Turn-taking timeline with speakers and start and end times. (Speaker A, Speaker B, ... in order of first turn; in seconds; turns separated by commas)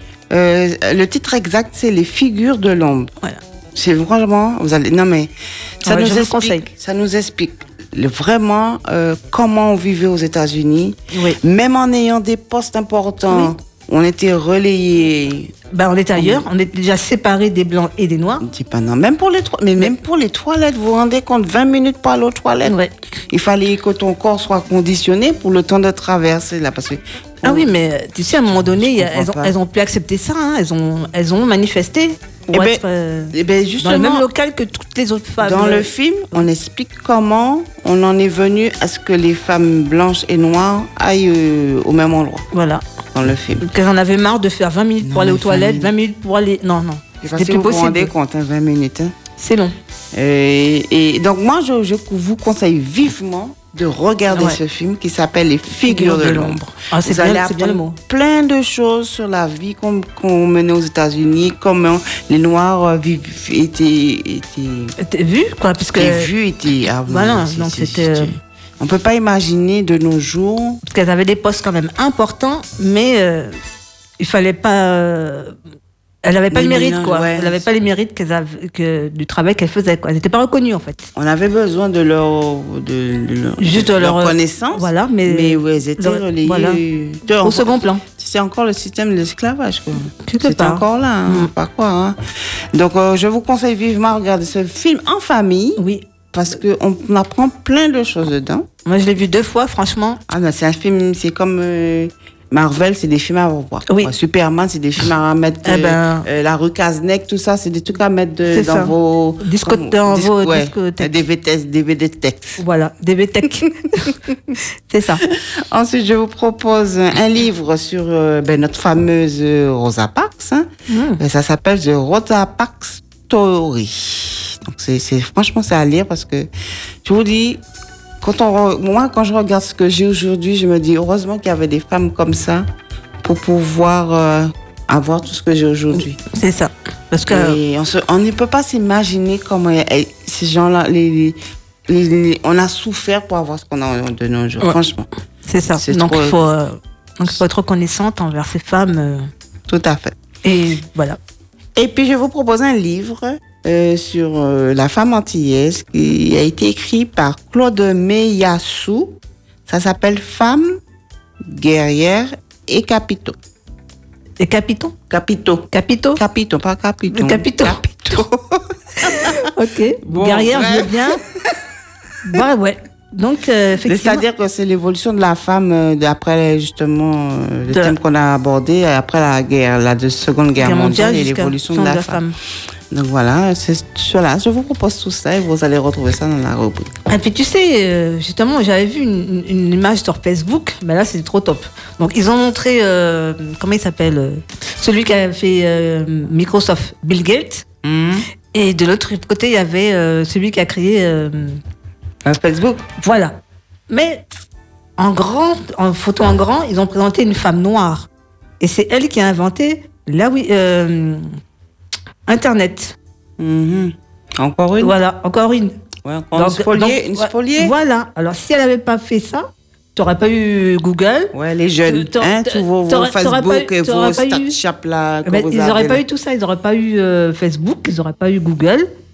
Speaker A: 0.3-3.1, Speaker A: 3.7-5.3, Speaker A: 5.8-15.5, Speaker B: 5.8-6.7, Speaker B: 15.7-18.4, Speaker A: 16.1-16.5, Speaker A: 18.4-22.8, Speaker B: 22.6-22.9, Speaker A: 23.3-27.7, Speaker B: 27.4-36.5, Speaker A: 28.4-29.6, Speaker A: 32.5-34.3, Speaker A: 35.4-42.5, Speaker B: 42.5-42.8, Speaker A: 43.1-43.7, Speaker B: 43.6-48.1, Speaker A: 45.0-45.9, Speaker A: 47.2-49.1, Speaker B: 49.4-49.8, Speaker A: 50.1-64.9, Speaker B: 54.3-54.6, Speaker B: 55.8-58.0, Speaker B: 65.0-66.3, Speaker A: 65.9-70.8, Speaker B: 67.1-68.3, Speaker B: 70.8-73.6, Speaker B: 74.2-75.5, Speaker B: 76.2-81.1, Speaker A: 76.5-77.7, Speaker A: 81.1-92.2, Speaker B: 83.6-86.8, Speaker B: 87.4-88.0, Speaker B: 90.2-91.5, Speaker A: 92.7-95.8, Speaker B: 95.8-96.0, Speaker A: 96.3-98.7, Speaker B: 98.8-100.2, Speaker A: 100.3-112.6, Speaker B: 103.9-104.1, Speaker B: 105.6-106.2, Speaker B: 108.5-111.1, Speaker B: 112.6-114.2, Speaker B: 114.9-115.2, Speaker A: 115.2-126.5, Speaker B: 120.9-121.2, Speaker A: 127.0-127.6, Speaker A: 128.2-132.7, Speaker A: 133.2-136.2, Speaker B: 136.0-137.6, Speaker A: 137.3-141.4, Speaker A: 141.9-145.1, Speaker B: 145.5-149.3, Speaker A: 145.7-146.4, Speaker A: 149.7-150.2, Speaker B: 150.4-151.2, Speaker A: 151.8-160.8, Speaker A: 161.4-163.4, Speaker B: 164.4-164.9, Speaker A: 165.1-169.5, Speaker B: 165.7-166.2, Speaker B: 167.1-168.2, Speaker B: 169.0-171.2, Speaker A: 170.0-171.2, Speaker B: 172.2-174.2, Speaker A: 173.9-182.2, Speaker B: 177.7-177.9, Speaker B: 180.6-182.3, Speaker A: 182.9-186.9, Speaker B: 187.1-197.6, Speaker A: 197.8-198.2, Speaker B: 198.5-201.6, Speaker A: 202.2-202.8, Speaker B: 203.0-203.4, Speaker B: 203.9-204.2, Speaker B: 205.0-208.1, Speaker B: 208.6-211.3, Speaker B: 212.2-212.9, Speaker A: 213.4-214.9, Speaker B: 214.8-215.8, Speaker A: 216.0-217.7, Speaker B: 216.3-221.3, Speaker A: 221.3-226.0, Speaker B: 221.8-224.6, Speaker B: 225.2-228.9